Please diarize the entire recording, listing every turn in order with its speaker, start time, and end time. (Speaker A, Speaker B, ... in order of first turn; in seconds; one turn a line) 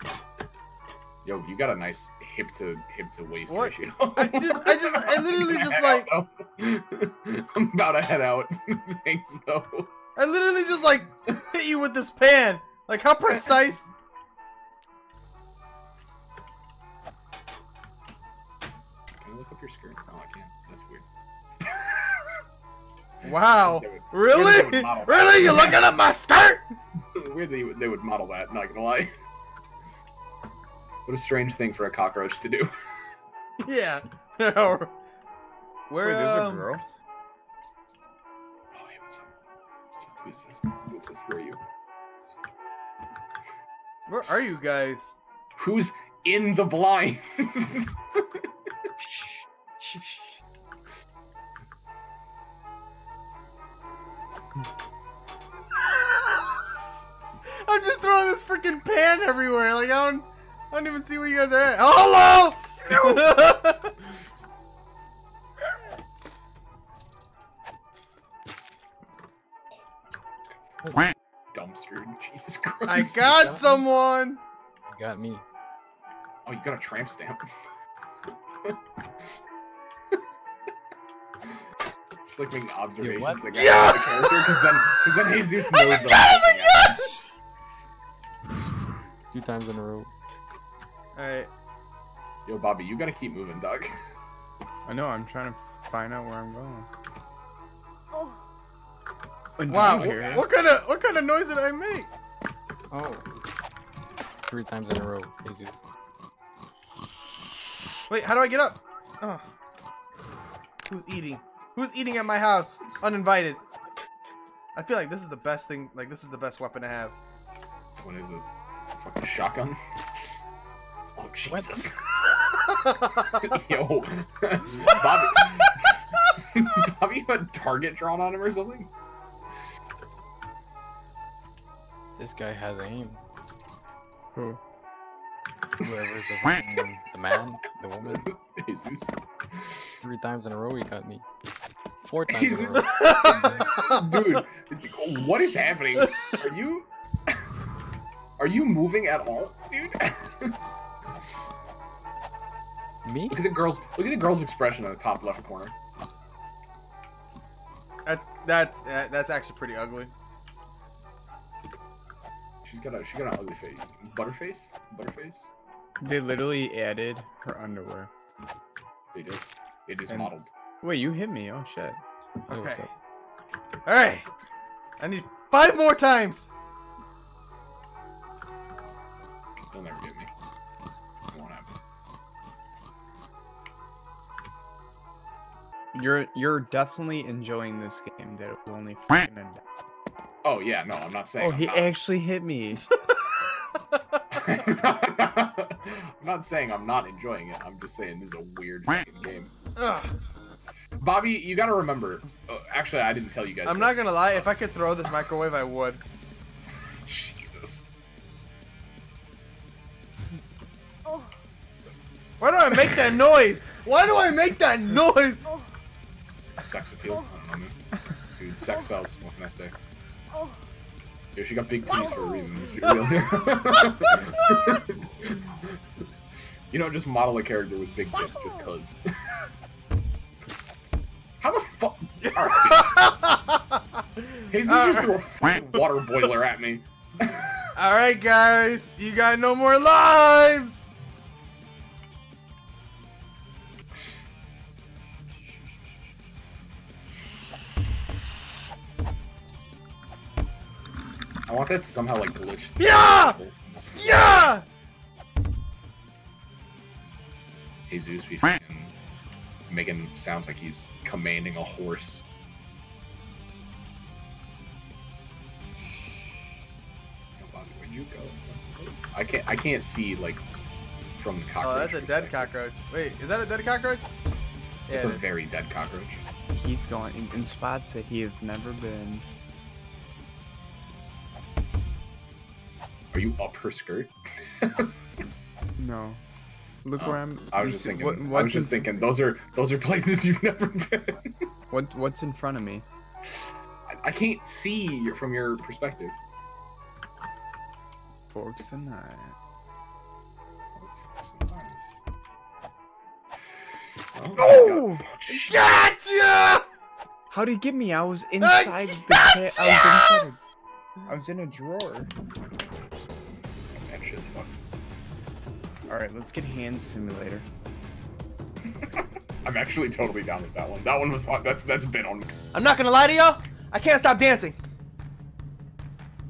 Speaker A: 1.2-9.9
Speaker B: 3.5-6.1
Speaker B: 10.2-13.9
Speaker A: 19.2-21.0
Speaker A: 21.7-22.0
Speaker A: 23.2-25.8
Speaker B: 23.2-26.6
Speaker A: 27.1-29.1
Speaker A: 31.1-32.7
Speaker B: 33.6-34.9
Speaker B: 35.9-36.7
Speaker C: 36.0-36.8
Speaker A: 38.7-39.3
Speaker A: 40.0-41.6
Speaker B: 44.1-45.1
Speaker A: 45.5-48.5
Speaker D: 49.0-50.2
Speaker B: 57.5-63.9
Speaker A: 70.5-73.5
Speaker B: 72.8-74.4
Speaker D: 73.4-73.8
Speaker D: 74.9-75.4
Speaker A: 76.4-77.4
Speaker A: 82.2-87.1
Speaker D: 83.0-83.8
Speaker B: 83.5-84.5
Speaker B: 85.9-86.3
Speaker D: 89.3-90.1
Speaker B: 91.2-91.5
Speaker A: 92.5-93.9
Speaker C: 94.8-96.9
Speaker C: 99.6-100.4
Speaker A: 99.7-100.5
Speaker B: 99.7-102.1
Speaker D: 102.9-103.2
Speaker D: 104.5-105.8
Speaker B: 108.1-109.4
Speaker B: 110.9-113.6
Speaker B: 114.7-117.2
Speaker A: 118.0-118.4
Speaker A: 119.0-119.8
Speaker A: 121.2-122.0
Speaker D: 121.5-121.9
Speaker B: 122.8-123.3
Speaker A: 123.3-128.9
Speaker D: 132.2-133.2
Speaker C: 134.3-134.6
Speaker D: 135.8-138.3
Speaker A: 138.0-139.1
Speaker D: 140.0-141.2
Speaker D: 142.0-143.8
Speaker A: 142.3-147.4
Speaker B: 142.8-144.2
Speaker A: 148.4-150.6
Speaker D: 153.0-153.4
Speaker A: 153.3-155.7
Speaker B: 158.0-160.1
Speaker A: 162.6-165.5
Speaker C: 166.0-168.1
Speaker A: 169.1-170.5
Speaker C: 170.1-172.0
Speaker B: 172.5-172.8
Speaker D: 172.5-172.9
Speaker B: 173.8-174.2
Speaker B: 175.0-176.5
Speaker A: 179.7-180.3
Speaker A: 181.3-181.7
Speaker C: 185.9-189.6
Speaker A: 190.4-191.9
Speaker C: 191.4-192.9
Speaker B: 193.3-194.4
Speaker A: 194.3-199.5
Speaker B: 199.8-200.1
Speaker A: 201.0-204.5
Speaker B: 203.6-206.0
Speaker A: 207.1-207.8
Speaker B: 212.4-215.4
Speaker A: 216.6-217.8
Speaker A: 218.3-219.7
Speaker A: 221.3-225.8
Speaker B: 223.4-223.8
Speaker A: 226.7-229.0
Speaker A: 231.4-233.1
Speaker B: 232.2-235.2
Speaker A: 234.5-237.5
Speaker B: 237.8-240.8
Speaker A: 251.4-254.5
Speaker B: 252.8-253.4
Speaker B: 253.9-254.6
Speaker A: 257.9-258.9
Speaker A: 259.7-262.2
Speaker A: 267.4-270.4
Speaker A: 271.1-272.5
Speaker B: 271.6-274.1
Speaker B: 274.9-275.2
Speaker A: 274.9-276.2
Speaker C: 276.5-279.2
Speaker A: 283.1-284.9
Speaker C: 285.8-286.2
Speaker C: 286.8-288.9
Speaker A: 287.0-291.4
Speaker C: 291.7-292.8
Speaker A: 293.9-296.2
Speaker C: 298.3-299.3
Speaker A: 300.8-302.0
Speaker A: 304.1-306.3
Speaker B: 304.4-306.6
Speaker C: 304.6-305.0
Speaker C: 307.3-310.4
Speaker B: 308.4-310.2
Speaker C: 311.1-312.1
Speaker A: 313.8-314.6
Speaker C: 315.9-317.4
Speaker A: 318.8-322.2
Speaker B: 322.5-324.6